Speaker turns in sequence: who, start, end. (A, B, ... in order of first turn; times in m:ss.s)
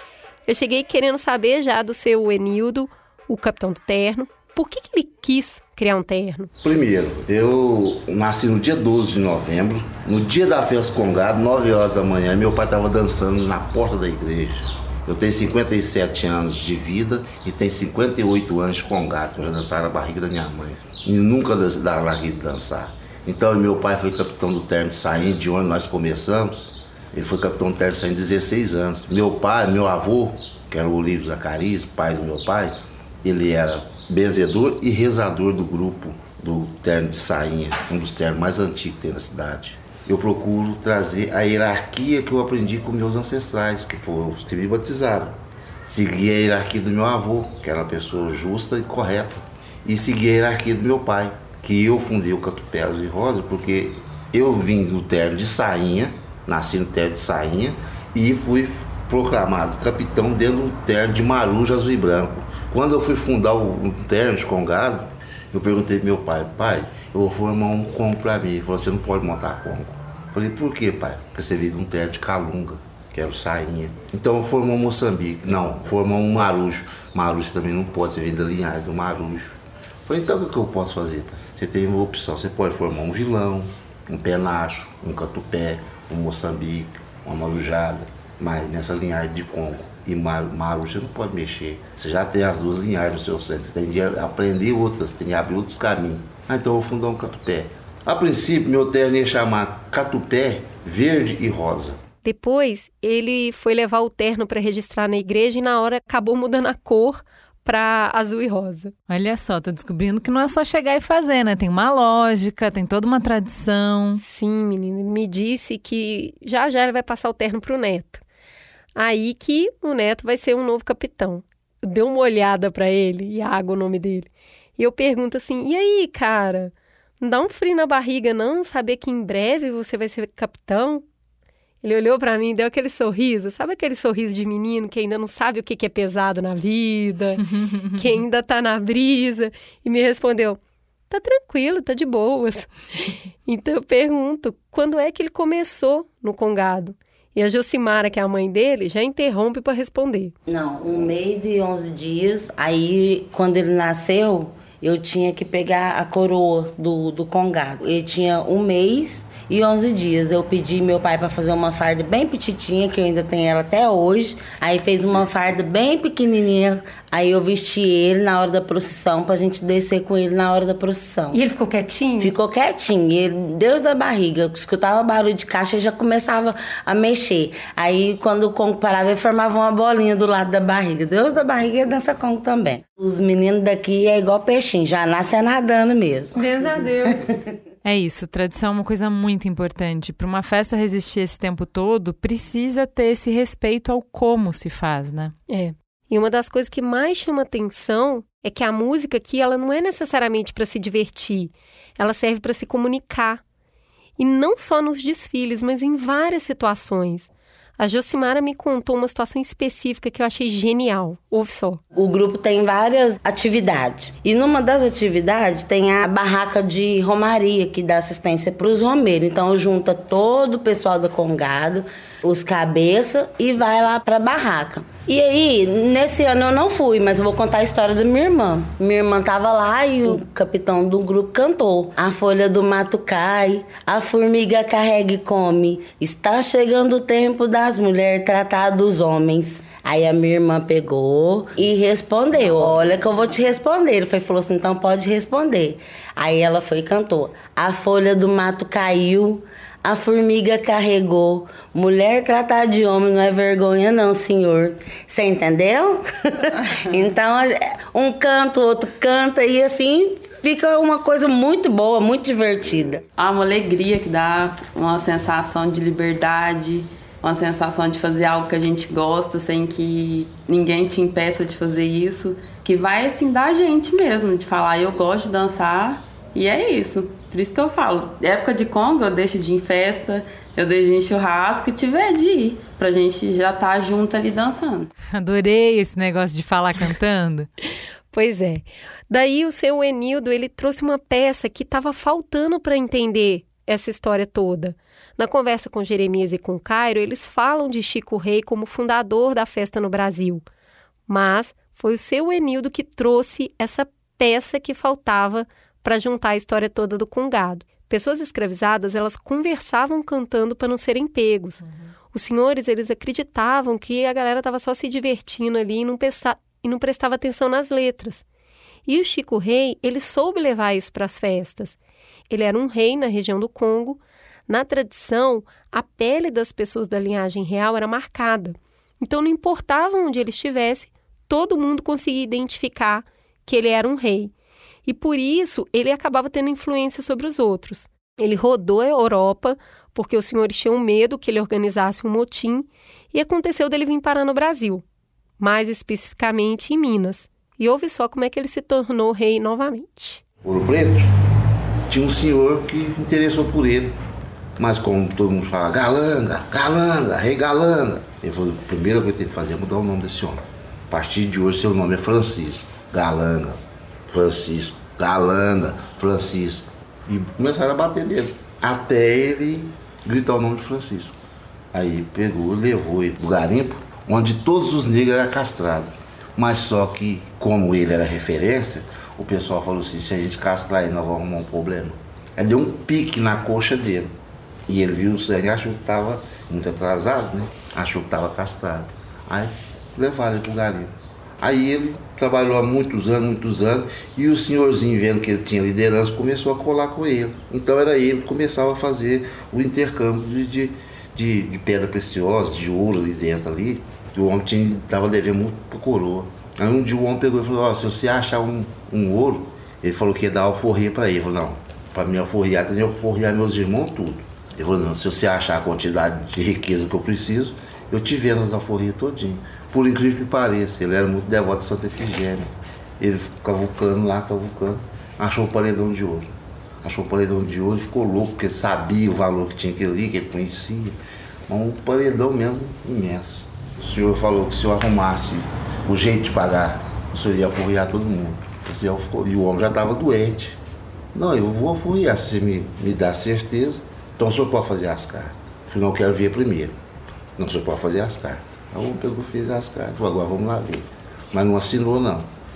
0:00.5-0:06.5 A
0:06.6-1:19.6 B
1:20.1-1:42.0 B
1:42.2-1:48.9 A
1:49.1-1:54.2 C
1:54.2-1:58.2 A
1:59.0-2:11.0 A
2:11.8-2:30.3 A
2:17.5-2:18.0 C
2:30.5-2:51.4 D
2:51.3-2:52.4 A
2:52.2-3:06.5 D
3:06.4-3:07.1 A
3:07.8-3:15.4 C
3:15.5-3:23.4 A
3:24.2-3:31.8 A
3:31.9-4:23.0 D
4:23.2-4:44.9 E
4:45.1-4:47.5 C
4:48.1-5:00.4 A
5:01.1-5:18.2 A
5:18.9-5:21.8 A
5:22.3-5:34.3 A
5:34.8-5:44.8 A
5:45.4-5:50.2 A
5:50.4-5:51.1 B
5:51.9-5:54.0 B
5:54.6-6:11.2 B
6:11.7-6:24.1 B
6:24.7-7:20.6 B
7:21.1-7:26.8 B
7:27.4-7:32.3 B